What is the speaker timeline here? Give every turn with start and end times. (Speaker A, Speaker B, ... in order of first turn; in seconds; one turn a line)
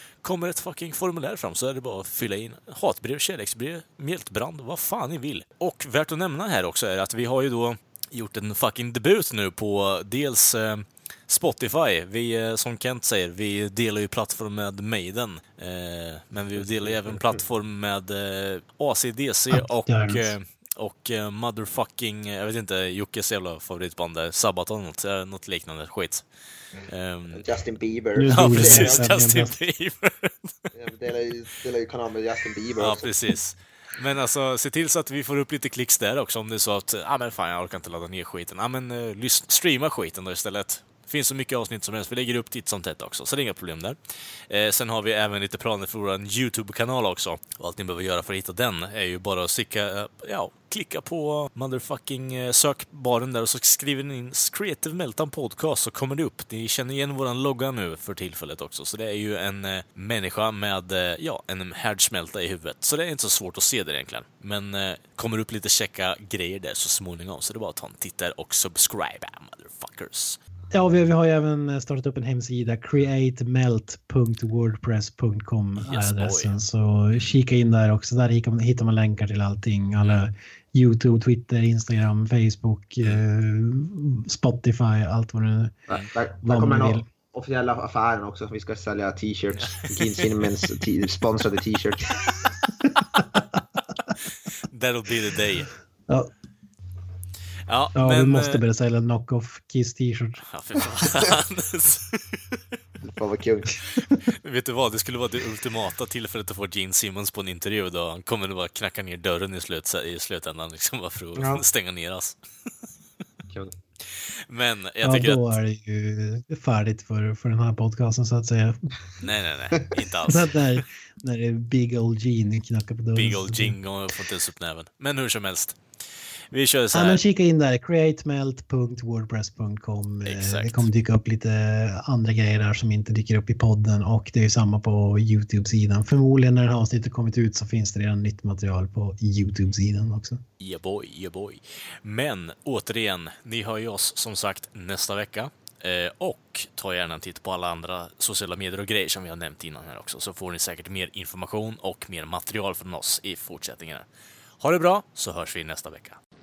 Speaker A: 0.2-26.2
Speaker B: 16.9-17.2
Speaker C: 19.5-20.3
Speaker A: 26.9-27.4
Speaker B: 27.3-29.1
Speaker C: 28.1-29.6
Speaker A: 28.3-30.5
Speaker B: 30.7-33.2
Speaker A: 32.8-70.4
Speaker C: 70.7-85.8
Speaker A: 75.8-76.5
Speaker B: 85.9-92.2
Speaker C: 86.4-87.0
Speaker A: 89.5-90.3
Speaker A: 94.7-95.7
Speaker A: 97.7-98.6
Speaker C: 98.0-100.5
Speaker A: 100.5-102.6
Speaker B: 103.0-103.8
Speaker A: 104.2-112.4
Speaker B: 111.4-111.6
Speaker A: 114.1-115.5
Speaker C: 115.0-118.8
Speaker A: 119.2-120.8
Speaker C: 120.2-123.8
Speaker A: 123.2-125.8
Speaker A: 126.5-127.2
Speaker C: 126.9-140.4
Speaker A: 130.2-130.9
Speaker A: 140.6-154.1
Speaker A: 154.6-156.2